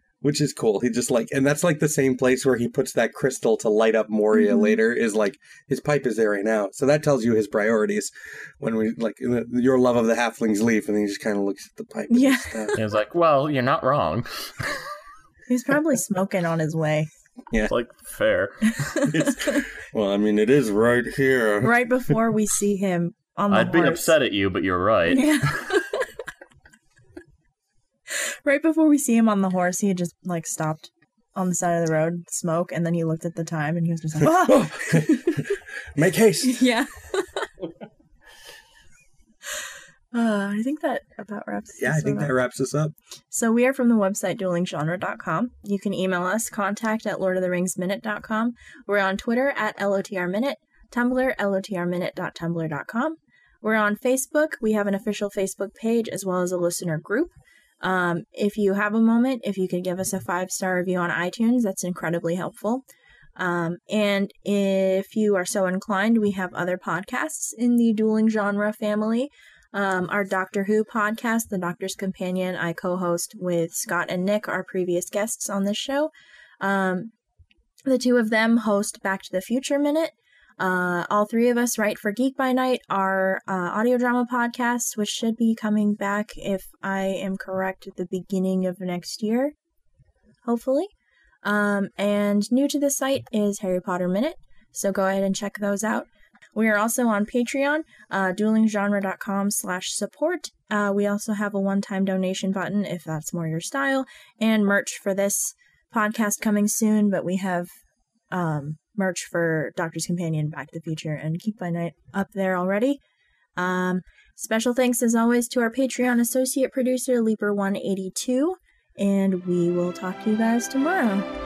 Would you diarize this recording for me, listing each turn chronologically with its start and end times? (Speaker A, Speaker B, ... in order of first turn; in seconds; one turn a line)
Speaker A: 0.2-12.7
Speaker B: 4.3-4.8
Speaker B: 12.1-12.7
Speaker C: 12.8-14.8
Speaker B: 15.5-17.1
Speaker C: 17.7-19.0
Speaker B: 18.7-19.6
Speaker A: 19.1-21.8
Speaker B: 21.6-24.1
Speaker C: 23.5-25.7
Speaker B: 25.1-26.1
Speaker B: 28.1-35.5
Speaker A: 34.2-35.4
Speaker A: 36.0-36.6
Speaker B: 36.4-37.5
Speaker B: 40.1-42.4
Speaker A: 41.8-42.9
Speaker B: 43.3-62.9
Speaker B: 63.4-77.1
Speaker B: 77.9-89.5
Speaker B: 90.5-90.9
Speaker B: 91.4-107.7
Speaker B: 108.3-113.0
Speaker B: 113.6-121.3